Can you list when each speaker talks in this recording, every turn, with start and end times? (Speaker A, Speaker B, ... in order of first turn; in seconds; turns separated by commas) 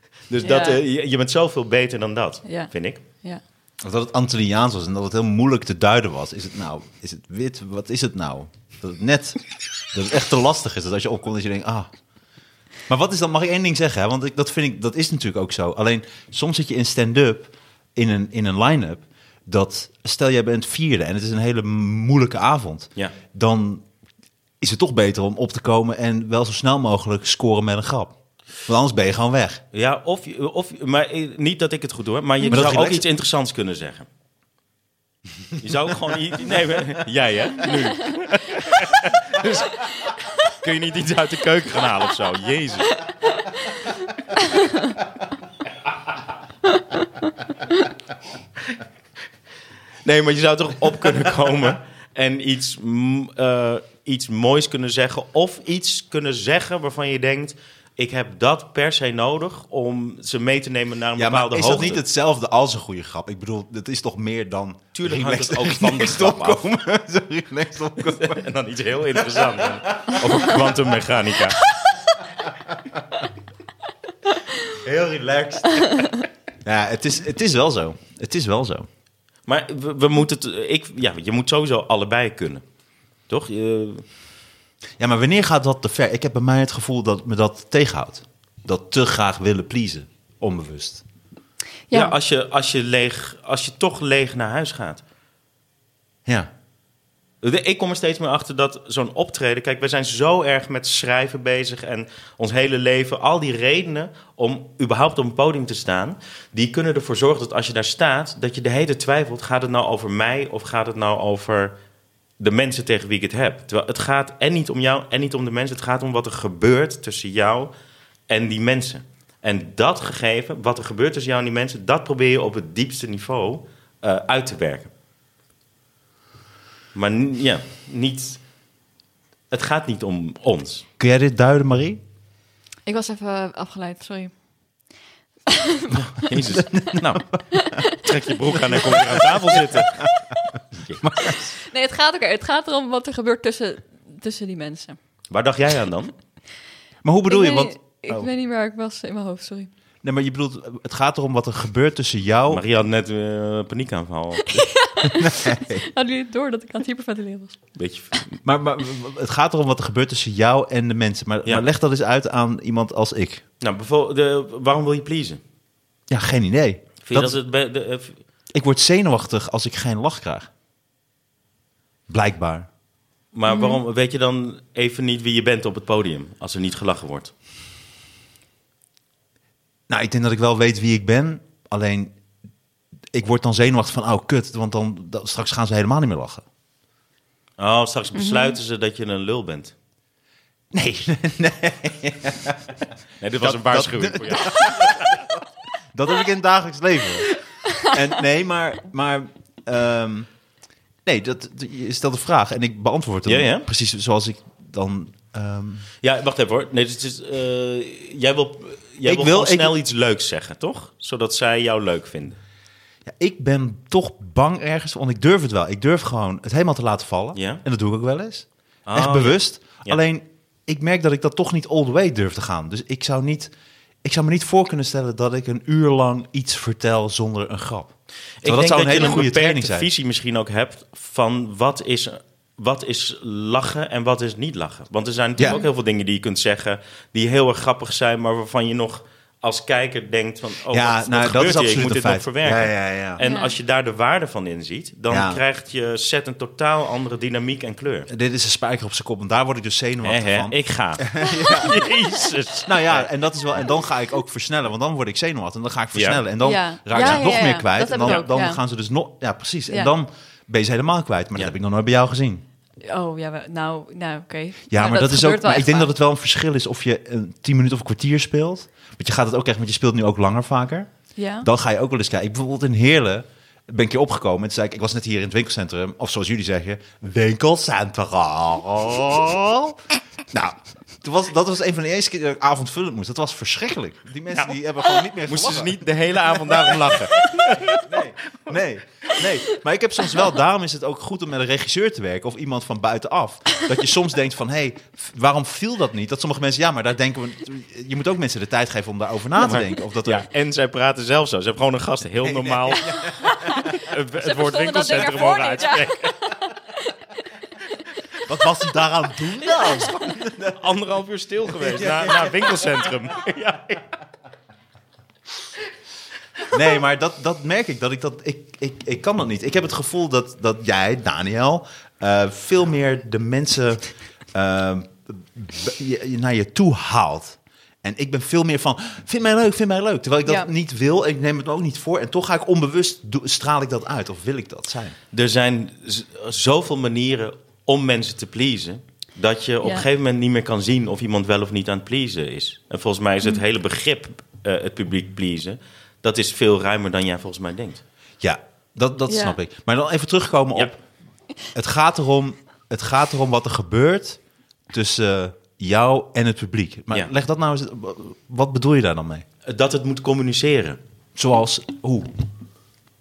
Speaker A: 0.3-3.0, Speaker B: 0.4-0.8, Speaker C: 3.8-9.4, Speaker C: 9.9-11.9, Speaker C: 12.9-23.8, Speaker C: 24.6-29.6, Speaker A: 29.7-34.1, Speaker C: 32.5-33.0, Speaker A: 35.6-43.1, Speaker B: 43.1-45.0, Speaker B: 46.7-47.1, Speaker A: 50.0-62.0, Speaker C: 61.2-68.4, Speaker A: 64.9-66.6, Speaker A: 68.0-71.6, Speaker C: 69.2-70.8, Speaker C: 72.4-73.0, Speaker C: 74.7-76.0, Speaker C: 76.6-78.9, Speaker A: 79.5-82.6, Speaker A: 83.3-84.0, Speaker C: 85.0-91.0, Speaker B: 91.9-92.1, Speaker A: 91.9-95.0, Speaker A: 97.4-111.7, Speaker A: 112.4-117.7, Speaker A: 118.3-124.9, Speaker A: 126.9-128.4, Speaker A: 129.5-130.8, Speaker C: 131.0-132.0, Speaker B: 132.8-134.3, Speaker B: 135.5-136.3, Speaker A: 136.1-140.1, Speaker C: 136.5-137.2, Speaker B: 137.5-138.0, Speaker C: 138.7-140.3, Speaker A: 140.7-141.1, Speaker C: 141.0-141.4, Speaker B: 141.2-145.0, Speaker A: 145.3-146.1, Speaker C: 147.0-147.7, Speaker B: 147.3-149.7, Speaker C: 150.0-152.6, Speaker A: 152.5-154.7, Speaker B: 154.4-157.6, Speaker C: 155.0-155.8, Speaker A: 157.8-158.4, Speaker C: 158.4-163.4, Speaker A: 163.6-165.4, Speaker C: 166.1-167.3, Speaker A: 167.0-168.2, Speaker C: 168.5-170.5, Speaker C: 172.1-172.7, Speaker A: 173.3-177.3, Speaker B: 173.5-173.8, Speaker C: 179.9-182.1, Speaker C: 183.1-186.4, Speaker A: 187.6-189.7, Speaker B: 188.2-188.6, Speaker C: 190.7-192.8, Speaker A: 193.2-195.2, Speaker C: 193.4-200.3, Speaker B: 197.7-197.9, Speaker C: 201.1-205.8, Speaker A: 203.2-203.7, Speaker A: 206.0-212.4, Speaker C: 209.0-209.8, Speaker C: 213.1-223.5, Speaker A: 217.3-217.6, Speaker A: 218.9-220.0, Speaker C: 224.0-227.9, Speaker A: 228.4-248.1, Speaker C: 228.4-229.9, Speaker C: 240.7-243.2, Speaker B: 243.2-243.5, Speaker C: 245.1-245.4, Speaker C: 248.1-251.8, Speaker A: 250.0-253.1, Speaker C: 252.6-262.4, Speaker A: 255.9-256.2, Speaker B: 256.4-258.6, Speaker A: 256.9-257.2, Speaker B: 262.8-265.9, Speaker C: 264.7-270.9, Speaker B: 271.1-271.5, Speaker C: 271.4-300.3, Speaker A: 285.2-288.0, Speaker A: 299.4-303.0, Speaker C: 302.2-303.7, Speaker B: 303.1-307.8, Speaker A: 303.5-306.3, Speaker C: 308.2-310.6, Speaker B: 309.5-309.8, Speaker A: 310.4-313.8, Speaker C: 311.5-312.9, Speaker C: 316.5-334.9, Speaker A: 335.1-347.8, Speaker C: 348.2-350.8, Speaker B: 349.1-349.4, Speaker C: 351.5-354.2, Speaker C: 354.7-359.2, Speaker A: 359.4-360.8, Speaker C: 361.1-362.1